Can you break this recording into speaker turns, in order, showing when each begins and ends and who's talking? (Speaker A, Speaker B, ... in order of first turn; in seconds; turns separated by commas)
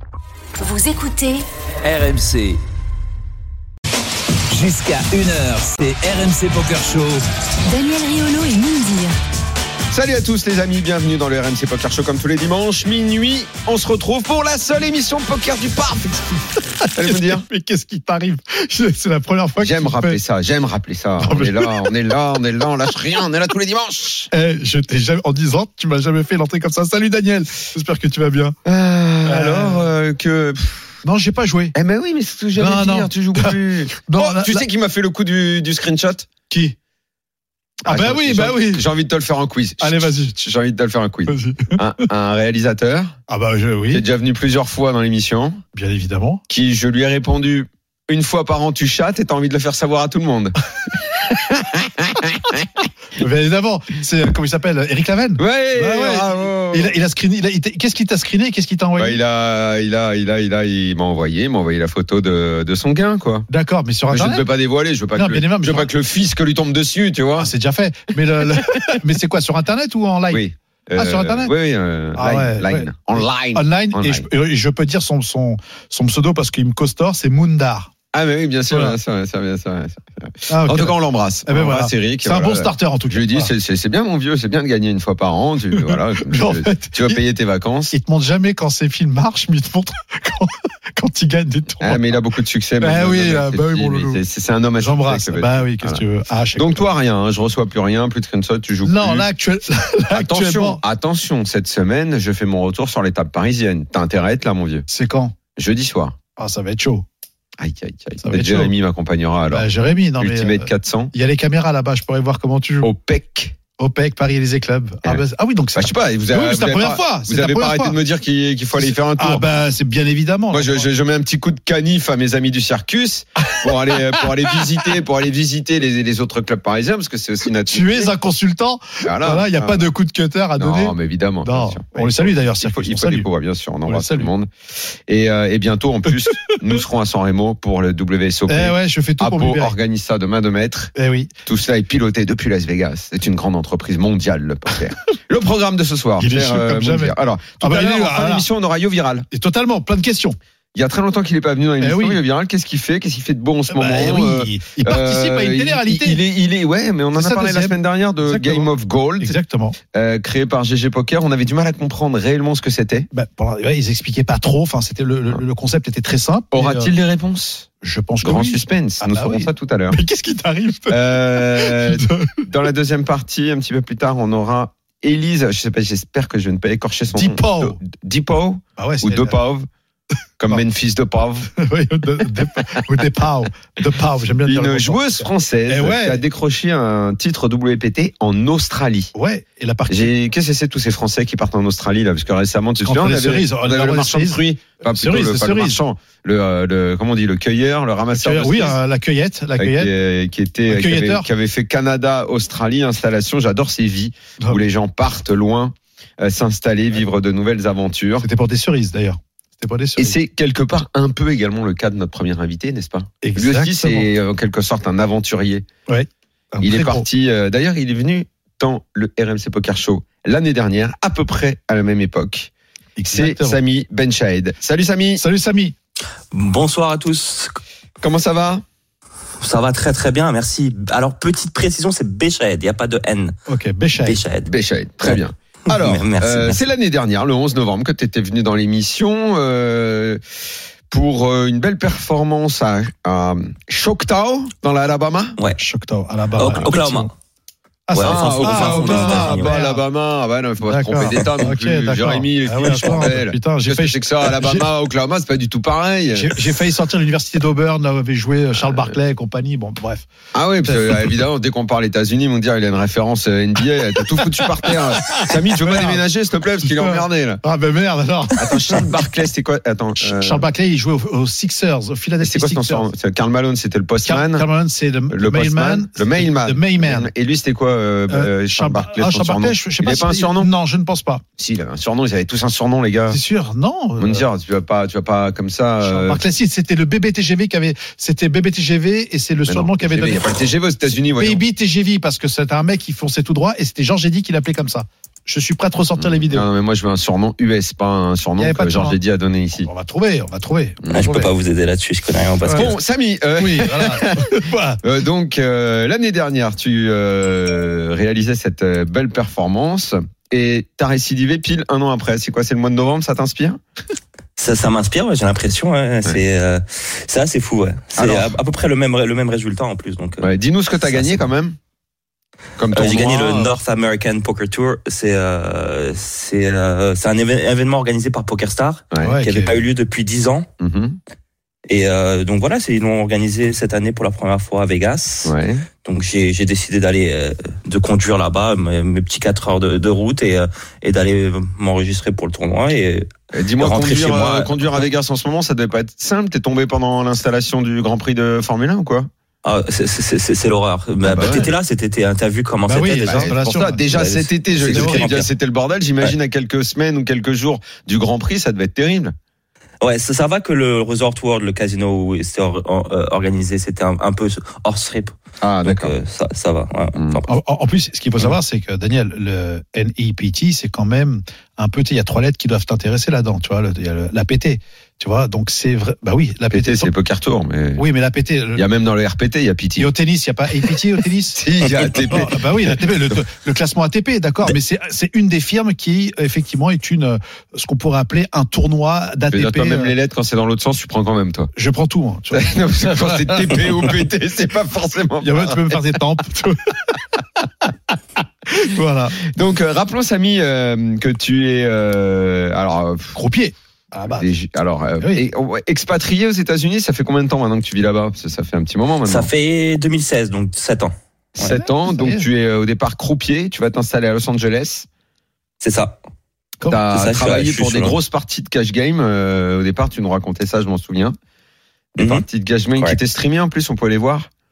Speaker A: 0.6-1.4, Speaker B: 1.8-2.6, Speaker B: 4.5-7.2, Speaker A: 7.7-9.1, Speaker C: 9.9-16.4, Speaker D: 16.8-20.2, Speaker C: 16.9-17.4, Speaker C: 19.6-24.3, Speaker D: 21.2-22.0, Speaker D: 24.3-28.6, Speaker C: 28.6-30.9, Speaker D: 29.2-29.9, Speaker D: 31.0-31.8, Speaker C: 31.7-36.3, Speaker D: 32.6-34.6, Speaker D: 36.5-36.8, Speaker C: 37.9-43.2, Speaker D: 37.9-38.9, Speaker D: 39.8-40.4, Speaker D: 41.3-41.8, Speaker D: 43.3-44.0, Speaker C: 43.9-45.6, Speaker D: 45.7-46.4, Speaker C: 46.5-50.5, Speaker C: 51.2-52.9, Speaker D: 53.2-59.2, Speaker C: 55.4-56.9, Speaker C: 59.0-63.5, Speaker D: 63.5-64.5, Speaker C: 64.1-67.5, Speaker D: 65.2-65.9, Speaker D: 67.4-70.4, Speaker C: 70.3-74.3, Speaker D: 71.0-71.5, Speaker D: 72.2-77.9, Speaker C: 78.1-88.0, Speaker D: 78.7-79.0, Speaker D: 80.5-83.5, Speaker D: 85.7-87.2, Speaker D: 87.9-92.1, Speaker C: 91.8-96.0, Speaker D: 92.8-94.2, Speaker D: 94.8-96.8, Speaker C: 96.5-99.3, Speaker D: 98.8-100.8, Speaker C: 100.1-104.9, Speaker D: 104.9-105.3, Speaker C: 105.6-106.2, Speaker D: 106.4-107.0, Speaker C: 107.6-109.7, Speaker D: 108.2-108.7, Speaker D: 109.5-112.9, Speaker C: 110.2-111.1, Speaker C: 112.8-113.6, Speaker D: 113.8-118.0, Speaker C: 115.8-119.5, Speaker D: 118.8-120.9, Speaker C: 120.5-128.1, Speaker D: 123.5-124.3, Speaker D: 127.7-133.3, Speaker C: 129.0-129.9, Speaker C: 130.6-134.5, Speaker D: 133.9-134.3, Speaker C: 135.1-140.9, Speaker D: 138.5-139.8, Speaker D: 141.0-141.3, Speaker C: 141.5-149.3, Speaker D: 146.2-148.5, Speaker D: 149.3-150.4, Speaker C: 150.8-159.4, Speaker D: 151.8-152.2, Speaker D: 153.7-156.2, Speaker D: 157.2-159.8, Speaker C: 159.9-163.1, Speaker D: 163.1-166.9, Speaker C: 166.5-167.7, Speaker D: 167.8-172.4, Speaker C: 168.2-170.0, Speaker C: 170.9-179.7, Speaker D: 177.1-177.8, Speaker D: 178.8-179.4, Speaker C: 180.4-181.5, Speaker D: 181.6-186.2, Speaker C: 184.4-189.1, Speaker D: 189.2-190.1, Speaker C: 189.9-198.8, Speaker D: 192.8-195.8, Speaker D: 198.1-199.9, Speaker C: 199.6-208.3, Speaker D: 200.7-201.3, Speaker D: 208.2-210.2, Speaker C: 210.0-215.7, Speaker D: 213.2-214.1, Speaker D: 215.9-217.1, Speaker C: 216.6-222.5, Speaker D: 223.0-223.6, Speaker C: 223.1-225.2, Speaker D: 225.2-225.8, Speaker E: 226.3-227.6, Speaker C: 228.0-228.6, Speaker E: 229.4-233.4, Speaker D: 233.5-234.2, Speaker E: 234.0-234.5, Speaker C: 234.5-240.2, Speaker E: 235.1-236.6, Speaker C: 240.9-245.4, Speaker D: 245.6-247.1, Speaker E: 246.4-247.1, Speaker D: 247.9-249.8, Speaker E: 247.9-249.6, Speaker C: 248.0-256.4, Speaker D: 250.7-254.7, Speaker E: 252.6-253.1, Speaker D: 256.1-260.1, Speaker C: 258.6-258.9, Speaker C: 260.3-267.4, Speaker D: 260.6-261.0, Speaker D: 264.2-266.0, Speaker D: 266.6-269.0, Speaker C: 268.4-270.5, Speaker D: 270.0-272.9, Speaker C: 272.2-274.5, Speaker D: 274.1-277.1, Speaker C: 275.1-280.5, Speaker D: 278.1-281.2, Speaker C: 281.4-283.2, Speaker D: 283.1-284.2, Speaker C: 284.0-286.3, Speaker D: 285.8-290.3, Speaker C: 289.5-291.4, Speaker D: 291.1-296.5, Speaker C: 296.0-299.7, Speaker D: 298.4-299.0, Speaker D: 299.6-301.3, Speaker C: 300.8-301.1, Speaker E: 300.9-302.8, Speaker C: 302.5-304.3, Speaker D: 303.4-304.8, Speaker C: 304.8-313.6, Speaker E: 314.4-320.3, Speaker C: 318.0-318.3, Speaker C: 320.2-321.6, Speaker E: 320.9-321.2, Speaker C: 322.6-323.5, Speaker E: 322.7-330.5, Speaker D: 329.0-329.5, Speaker C: 330.6-331.0, Speaker E: 331.7-344.9, Speaker C: 335.2-335.7, Speaker C: 343.3-349.1, Speaker E: 349.4-353.4, Speaker C: 351.1-351.5, Speaker D: 351.2-351.5, Speaker D: 352.7-353.8, Speaker C: 353.0-359.1, Speaker E: 353.9-355.3, Speaker D: 354.7-355.1, Speaker E: 359.8-367.3, Speaker C: 365.4-365.9, Speaker C: 367.0-367.2, Speaker D: 367.3-376.9, Speaker C: 376.5-377.8, Speaker D: 377.8-378.6, Speaker C: 378.6-379.9, Speaker D: 379.8-389.9, Speaker C: 381.3-383.2, Speaker C: 389.3-391.5, Speaker D: 391.6-393.9, Speaker C: 392.3-395.8, Speaker D: 395.2-397.0, Speaker D: 398.6-399.2, Speaker C: 399.2-403.2, Speaker D: 403.1-404.3, Speaker C: 404.1-409.3, Speaker D: 405.0-405.2, Speaker E: 409.1-410.9, Speaker C: 411.4-414.9, Speaker D: 411.4-412.3, Speaker E: 415.6-416.0, Speaker C: 416.7-421.1, Speaker E: 416.9-418.0, Speaker C: 421.9-424.3, Speaker E: 422.0-422.2